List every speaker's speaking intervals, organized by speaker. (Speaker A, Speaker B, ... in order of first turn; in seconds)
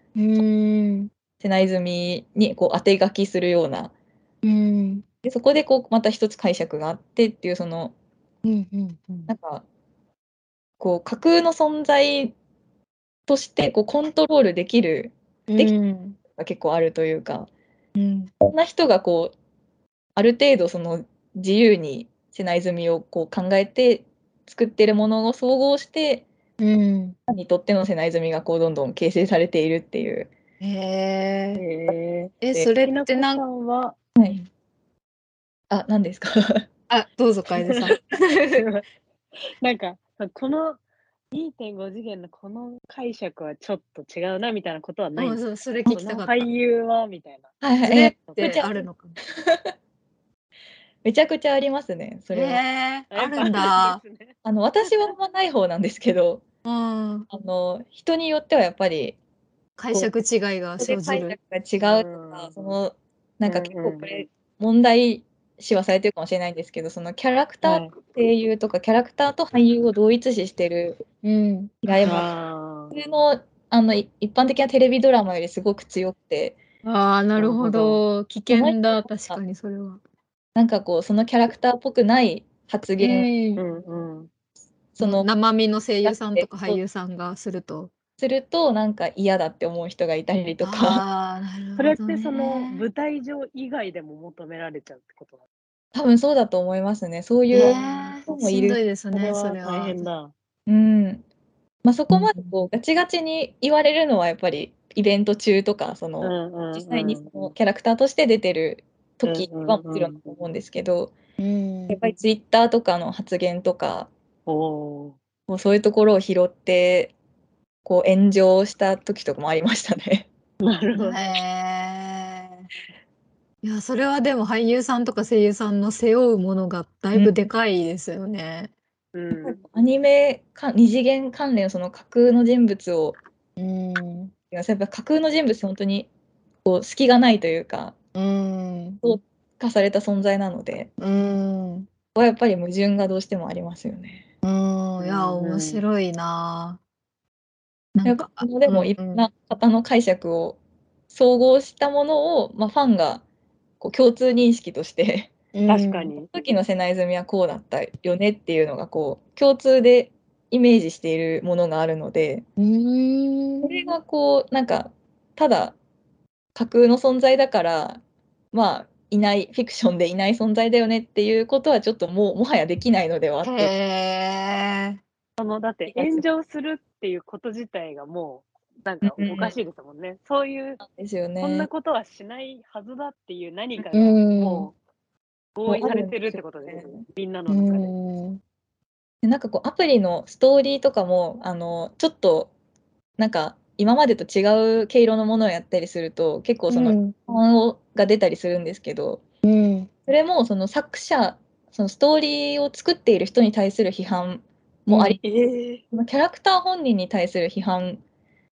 Speaker A: 0.1-1.1, 4.4-5.0, 8.4-9.3, 15.5-16.2, 17.9-18.3, 26.6-27.1, 30.6-31.6, 32.4-33.4, 36.9-38.6, 45.1-46.5, 47.8-49.1, 52.3-54.0, 56.6-57.3, 59.8-61.4, 71.2-71.8, 76.8-80.0, 83.0-83.6, 85.0-87.9, 90.6-92.8, 97.5-100.1, 102.1-102.5, 111.4-112.0, 121.0-122.7, 123.6-128.7, 133.6-134.3, 138.1-139.0, 141.0-141.9, 144.4-146.8, 147.9-149.3, 155.5-156.1, 162.6-163.9, 173.4-175.0, 183.9-184.7, 187.5-188.4, 196.7-197.2, 199.4-199.9, 204.9-205.2
Speaker B: 1.4-3.9, 5.2-7.9, 9.3-9.6, 10.8-12.3, 13.3-15.7, 16.4-17.5, 18.4-19.3, 20.1-26.2, 27.3-30.3, 34.1-34.5, 35.7-36.6, 47.6-48.7, 49.4-49.7, 51.0-52.6, 54.4-56.4, 57.3-59.2, 60.8-71.0, 71.8-72.3, 72.9-76.6, 78.5-79.4, 80.5-83.3, 84.9-85.3, 86.0-86.8, 88.2-91.0, 95.9-98.8, 100.7-101.2, 101.8-111.1, 111.9-114.1, 115.5-117.1, 117.8-120.3, 129.4-133.2, 134.5-136.1, 136.6-137.9, 139.0-140.9, 142.1-144.2, 148.0-150.6, 151.1-153.2, 153.8-155.3, 156.3-162.4, 163.6-165.8, 166.5-168.0, 168.5-173.7, 175.9-176.2, 179.0-179.6, 180.8-181.7, 185.7-187.0, 189.2-192.5, 193.2-199.2, 200.1-205.2, 205.9-208.0
Speaker C: 31.6-34.0, 37.5-37.9, 38.5-38.8, 39.6-40.8, 41.3-47.5, 48.3-48.8, 53.1-54.4, 61.8-62.8, 63.4-64.2, 67.6-67.9, 72.0-72.9, 77.4-78.0, 83.5-84.3, 91.8-95.4, 97.6-98.1, 99.1-100.3, 106.2-107.5, 109.2-110.2, 114.5-115.2, 120.6-121.2, 129.1-129.6, 145.0-145.8, 155.7-156.3, 175.4-180.8, 181.4-184.7, 185.6-187.9, 205.2-205.8